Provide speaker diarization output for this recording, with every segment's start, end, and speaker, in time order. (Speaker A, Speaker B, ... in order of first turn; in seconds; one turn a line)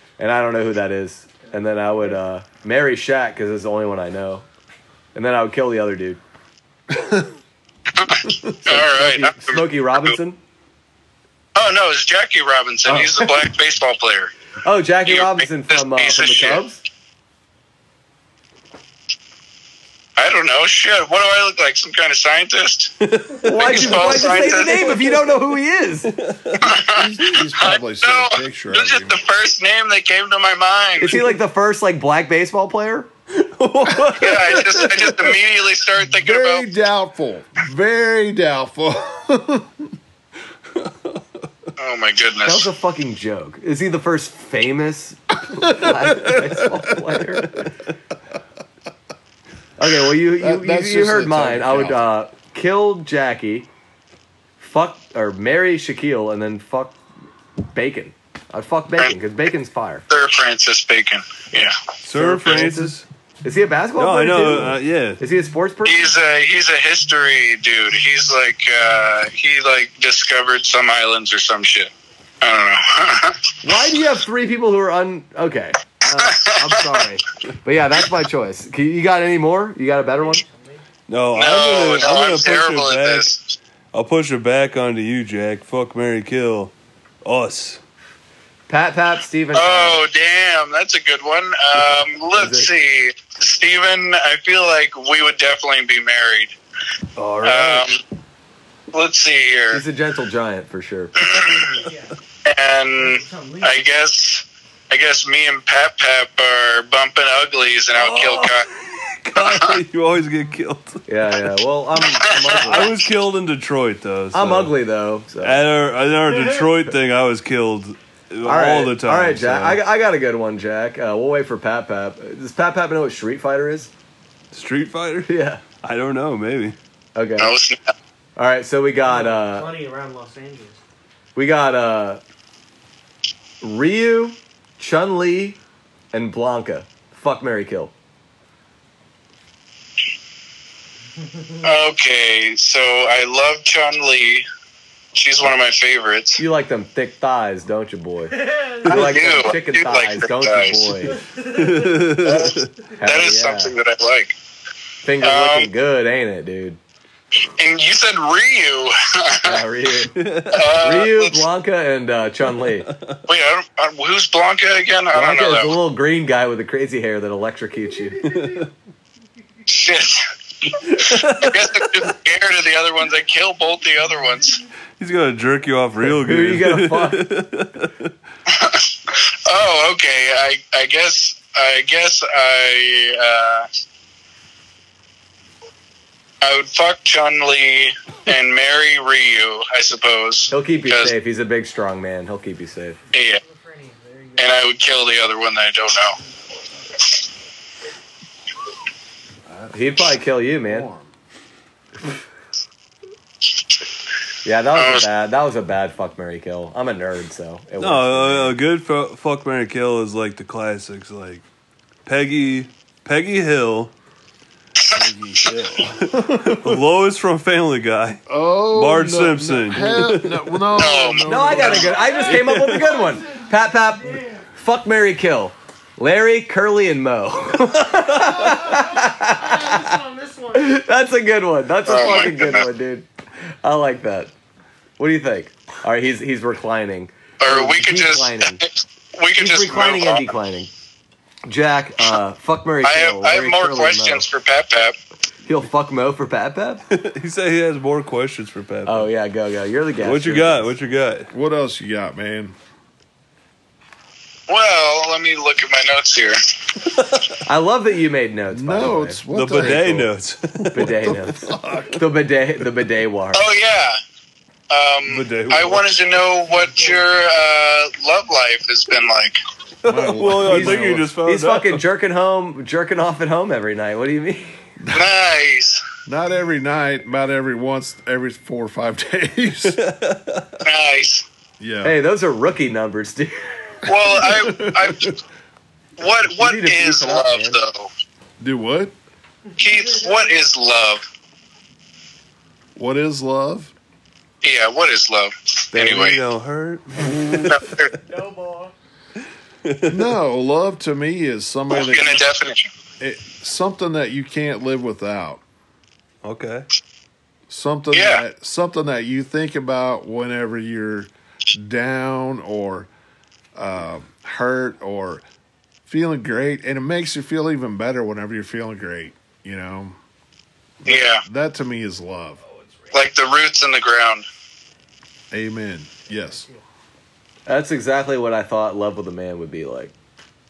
Speaker A: 0.2-4.4
Speaker A: 5.1-6.2
Speaker B: 6.9-7.2
Speaker C: 7.9-10.2
Speaker A: 8.7-10.4
Speaker C: 11.6-14.3
Speaker A: 12.9-13.2
Speaker A: 14.6-16.8
Speaker C: 15.1-16.6
Speaker C: 20.2-22.9
Speaker D: 23.0-24.7
Speaker A: 23.4-26.1
Speaker C: 23.5-25.1
Speaker D: 26.2-26.7
Speaker C: 26.6-31.2
Speaker B: 26.8-29.3
Speaker A: 31.0-33.1
Speaker D: 33.6-34.4
Speaker A: 33.8-34.6
Speaker C: 34.1-36.7
Speaker B: 36.1-39.9
Speaker C: 41.8-42.7
Speaker A: 42.4-47.6
Speaker B: 45.5-47.6
Speaker A: 49.8-53.7
Speaker B: 50.2-52.1
Speaker A: 54.6-57.0
Speaker A: 57.6-60.0
Speaker C: 60.1-61.7
Speaker D: 62.0-63.1
Speaker A: 62.1-66.1
Speaker D: 64.0-65.2
Speaker C: 65.8-71.9
Speaker C: 72.4-73.4
Speaker A: 73.6-80.4
Speaker C: 76.2-77.0
Speaker E: 80.1-80.8
Speaker D: 81.1-83.3
Speaker C: 81.3-83.6
Speaker D: 83.9-86.7
Speaker D: 87.2-87.8
Speaker A: 88.7-90.0
Speaker C: 89.5-96.5
Speaker A: 92.3-92.7
Speaker D: 97.2-97.9
Speaker C: 97.4-98.0
Speaker C: 98.9-99.8
Speaker A: 99.7-101.2
Speaker C: 101.2-101.7
Speaker E: 101.8-102.2
Speaker C: 102.5-108.7
Speaker E: 103.0-103.8
Speaker D: 107.9-111.0
Speaker C: 109.4-109.7
Speaker A: 111.1-113.0
Speaker C: 112.3-112.9
Speaker D: 112.5-114.7
Speaker A: 114.3-115.6
Speaker D: 115.4-119.8
Speaker A: 118.4-123.9
Speaker D: 124.5-126.8
Speaker A: 125.3-125.6
Speaker A: 127.1-127.5
Speaker C: 127.4-127.9
Speaker A: 128.4-129.7
Speaker E: 129.0-130.8
Speaker A: 131.4-132.2
Speaker A: 133.6-135.6
Speaker A: 136.1-137.9
Speaker C: 141.6-144.4
Speaker C: 145.1-146.4
Speaker A: 146.4-151.2
Speaker E: 148.3-148.9
Speaker C: 148.9-150.9
Speaker E: 151.1-152.1
Speaker D: 151.4-152.7
Speaker A: 153.0-153.7
Speaker C: 153.0-154.3
Speaker A: 155.0-156.8
Speaker C: 155.2-155.7
Speaker C: 157.4-159.6
Speaker A: 159.4-160.1
Speaker D: 160.1-160.8
Speaker C: 160.5-161.4
Speaker A: 160.8-162.9
Speaker D: 162.9-163.2
Speaker C: 163.3-165.8
Speaker A: 165.1-168.3
Speaker D: 168.2-168.7
Speaker C: 169.7-174.6
Speaker D: 170.8-171.8
Speaker D: 175.0-178.1
Speaker A: 176.0-177.2
Speaker C: 178.5-183.7
Speaker C: 186.4-191.1
Speaker A: 190.5-193.0
Speaker C: 193.1-193.4
Speaker E: 193.3-194.7
Speaker C: 194.4-196.2
Speaker B: 199.5-201.1
Speaker A: 199.7-200.9
Speaker A: 204.4-208.6
Speaker C: 204.7-205.1
Speaker D: 207.8-211.4
Speaker D: 212.1-213.9
Speaker B: 214.9-216.8
Speaker D: 216.0-220.6
Speaker B: 218.3-222.2
Speaker C: 220.8-221.9
Speaker A: 221.2-229.9
Speaker E: 221.7-224.5
Speaker D: 222.3-222.9
Speaker E: 228.2-230.8
Speaker A: 230.5-233.1
Speaker C: 231.9-232.7
Speaker A: 233.6-234.3
Speaker A: 235.0-238.6
Speaker C: 237.4-240.2
Speaker A: 239.4-240.7
Speaker A: 241.4-244.3
Speaker C: 242.8-244.9
Speaker A: 245.4-246.8
Speaker D: 246.9-249.1
Speaker A: 248.9-250.7
Speaker D: 250.0-251.3
Speaker B: 251.3-252.6
Speaker C: 254.5-256.4
Speaker A: 257.4-259.6
Speaker B: 258.5-260.1
Speaker D: 259.3-261.1
Speaker A: 260.7-263.4
Speaker B: 260.8-262.0
Speaker C: 263.3-264.0
Speaker C: 264.7-269.4
Speaker D: 265.1-266.1
Speaker E: 266.5-267.2
Speaker D: 269.8-271.8
Speaker B: 269.8-271.1
Speaker A: 270.4-274.6
Speaker B: 274.8-275.1
Speaker C: 274.9-275.8
Speaker B: 276.1-279.8
Speaker D: 279.7-280.6
Speaker C: 280.6-281.2
Speaker B: 281.6-282.0
Speaker A: 281.8-283.4
Speaker C: 283.9-285.1
Speaker B: 283.9-285.1
Speaker C: 286.0-287.9
Speaker A: 286.2-287.6
Speaker B: 288.4-288.9
Speaker C: 289.6-291.1
Speaker E: 289.6-290.3
Speaker B: 292.8-293.7
Speaker C: 294.4-296.2
Speaker D: 295.7-297.9
Speaker C: 297.4-297.9
Speaker E: 298.0-298.7
Speaker D: 299.6-300.1
Speaker B: 299.9-302.2
Speaker C: 301.7-302.7
Speaker B: 303.0-305.4
Speaker D: 306.2-306.7
Speaker B: 307.5-312.9
Speaker C: 307.9-308.2
Speaker B: 313.6-315.2
Speaker B: 315.9-319.9
Speaker B: 320.8-322.4
Speaker C: 320.9-321.2
Speaker E: 322.6-322.9
Speaker C: 322.9-324.2
Speaker B: 325.3-326.5
Speaker E: 326.1-326.6
Speaker A: 327.5-329.9